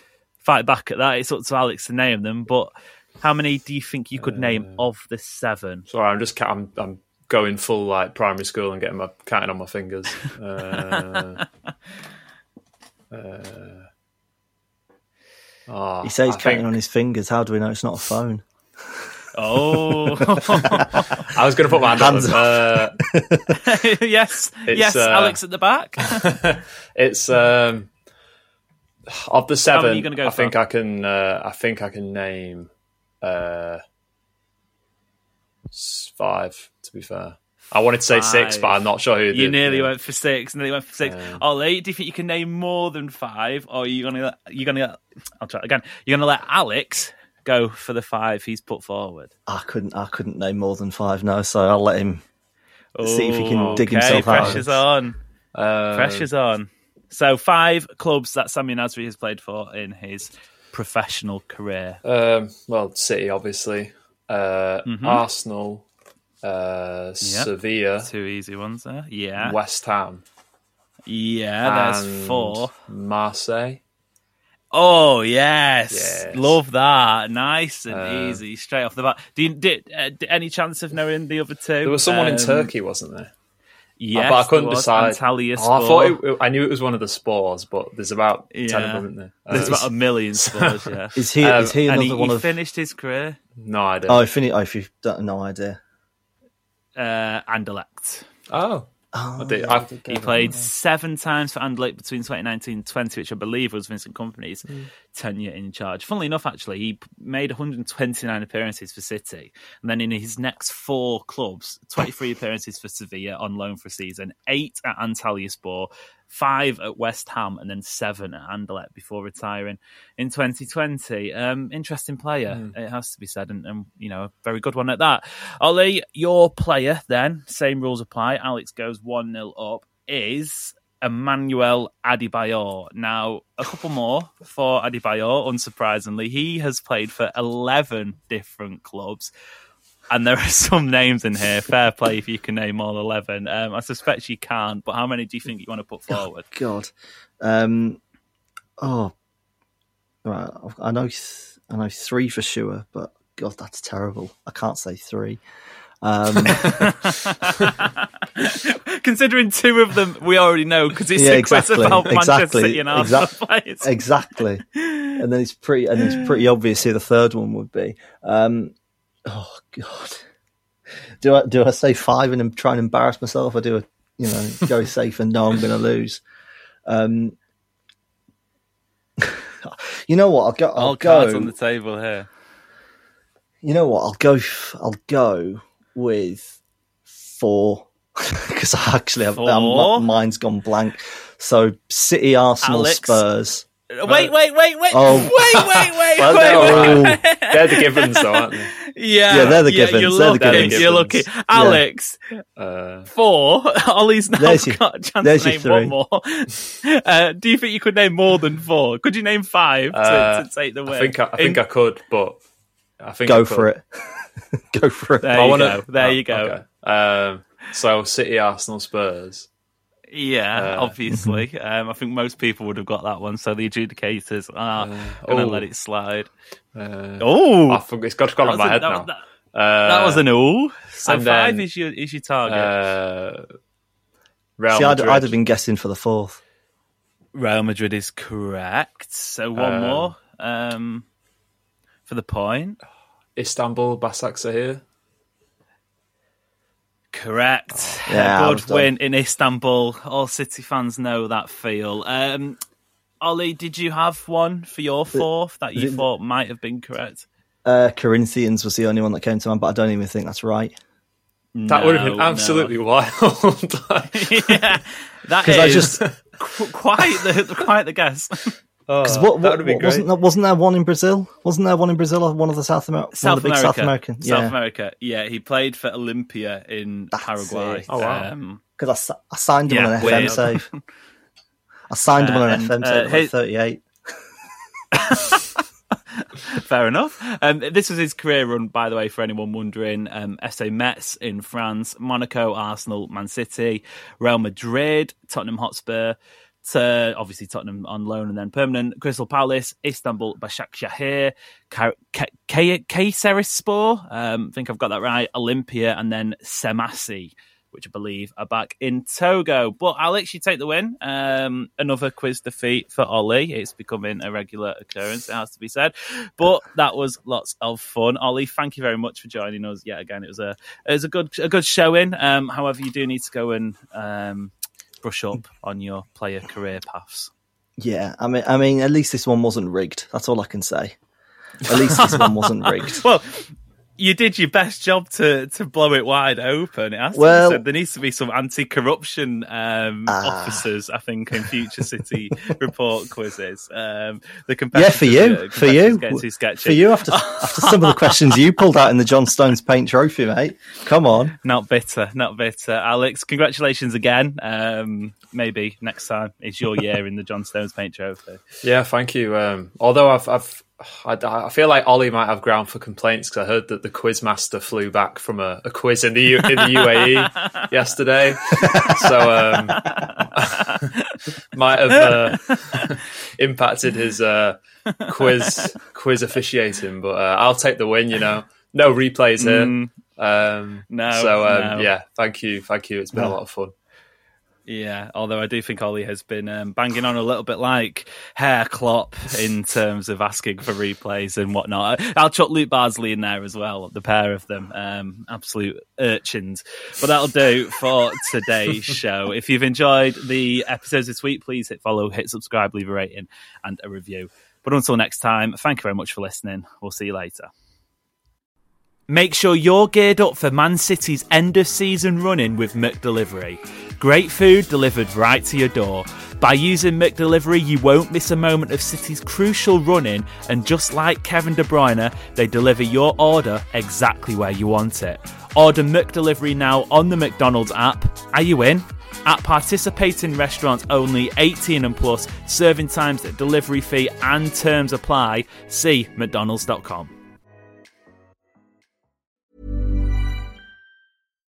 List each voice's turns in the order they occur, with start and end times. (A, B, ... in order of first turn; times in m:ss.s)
0:00.4-0:05.8 A
0:04.2-0:04.8 B
0:05.9-0:11.4 B
0:13.1-0:13.9 B
0:15.7-0:16.7 B
0:16.0-0:19.0 C
0:19.3-0:21.2 A
0:19.6-0:20.9 C
0:21.3-0:23.0 B
0:21.9-0:23.6 C
0:23.6-0:26.2 A
0:24.7-0:25.4 B
0:26.0-0:27.9 B
0:29.1-0:32.7 B
0:29.7-0:30.5 A
0:33.2-0:33.8 B
0:35.7-0:39.9 B
0:38.1-0:38.8 A
0:39.3-0:49.3 A
0:41.0-0:41.4 B
0:49.5-0:52.2 C
0:52.9-0:55.2 A
0:53.0-0:54.8 C
0:53.5-0:54.6 B
0:55.5-0:56.3 B
0:55.9-1:02.0 A
1:02.0-1:05.8 B
1:04.8-1:05.2 A
1:06.4-1:08.1 B
1:07.2-1:07.5 A
1:08.0-1:09.6 A
1:09.4-1:10.2 B
1:11.1-1:12.7 A
1:11.6-1:13.8 B
1:14.7-1:22.7 A
1:15.9-1:16.6 B
1:17.9-1:18.4 B
1:21.8-1:23.3 B
1:24.0-1:26.2 A
1:24.1-1:31.8 B
1:28.5-1:31.2 A
1:29.5-1:29.8 C
1:31.2-1:32.5 C
1:31.7-1:33.4 A
1:33.6-1:34.2 B
1:34.1-1:35.8 C
1:37.0-1:38.2 A
1:38.5-1:40.6 B
1:39.1-1:40.6 C
1:40.1-2:19.3 A
2:02.5-2:02.7 B
2:20.1-2:26.5 A
2:26.1-2:28.0 C
2:28.8-2:29.1 C
2:30.2-2:35.4 C
2:36.0-2:36.8 C
2:36.4-2:44.0 A
2:41.1-2:48.7 C
2:44.8-2:45.2 A
2:49.2-2:50.2 C
2:51.2-2:56.2 C
2:56.8-2:57.4 C
2:59.2-3:01.5 C
3:00.8-3:02.3 A
3:03.6-3:13.6 C
3:09.3-3:10.0 A
3:12.6-3:13.2 A
3:13.9-3:22.2 A
3:14.0-3:14.3 B
3:14.9-3:15.4 C
3:15.6-3:18.7 B
3:16.2-3:17.2 C
3:19.3-3:20.8 C
3:19.3-3:19.6 B
3:20.3-3:21.3 B
3:21.5-3:21.8 C
3:22.6-3:23.1 B
3:23.1-3:31.6 A
3:24.4-3:26.0 C
3:29.9-3:32.4 B
3:33.0-3:33.7 B
3:33.2-3:35.5 C
3:35.2-3:36.6 A
3:35.3-3:39.5 B
3:40.1-3:46.3 A
3:40.5-3:40.9 B
3:41.1-3:41.4 C
3:44.8-3:45.7 B
3:46.7-3:50.2 B
3:47.2-3:47.8 A
3:48.4-3:49.2 A
3:49.8-3:52.7 A
3:51.0-3:51.6 B
3:52.5-3:53.5 B
3:54.6-3:55.4 B
3:54.7-3:56.4 C
3:57.3-4:01.0 A
3:59.6-4:00.1 B
4:02.1-4:02.8 A
4:03.4-4:04.8 B
4:07.1-4:12.6 A
4:08.1-4:08.9 C
4:13.2-4:17.2 A
4:15.1-4:16.0 C
4:17.6-4:20.7 C
4:21.5-4:22.7 A
4:21.7-4:24.8 B
4:24.1-4:28.5 A
4:25.4-4:26.0 C
4:25.7-4:26.2 B
4:28.9-4:30.1 B
4:29.0-4:34.5 C
4:33.2-4:38.6 A
4:37.1-4:37.8 C
4:37.9-4:38.3 B
4:38.8-4:40.7 C
4:39.7-4:40.8 A
4:40.0-4:40.4 B
4:41.9-4:43.8 C
4:42.2-4:43.3 A
4:44.9-4:45.6 A
4:46.2-5:24.5 A
5:25.0-5:27.3 A
5:27.8-5:31.0 C
5:31.6-5:33.0 C
5:31.7-5:48.3 A
5:37.1-5:37.6 C
5:40.1-5:40.6 C
5:44.7-5:51.4 C
5:51.4-5:58.4 A
5:58.6-6:10.9 B
6:06.6-6:07.4 A
6:08.6-6:09.0 C
6:09.8-6:11.2 A
6:11.5-6:23.7 B
6:12.0-6:12.8 A
6:15.0-6:15.7 A
6:19.4-6:19.9 A
6:20.9-6:21.9 A
6:24.7-6:47.5 A
6:49.1-7:17.1 A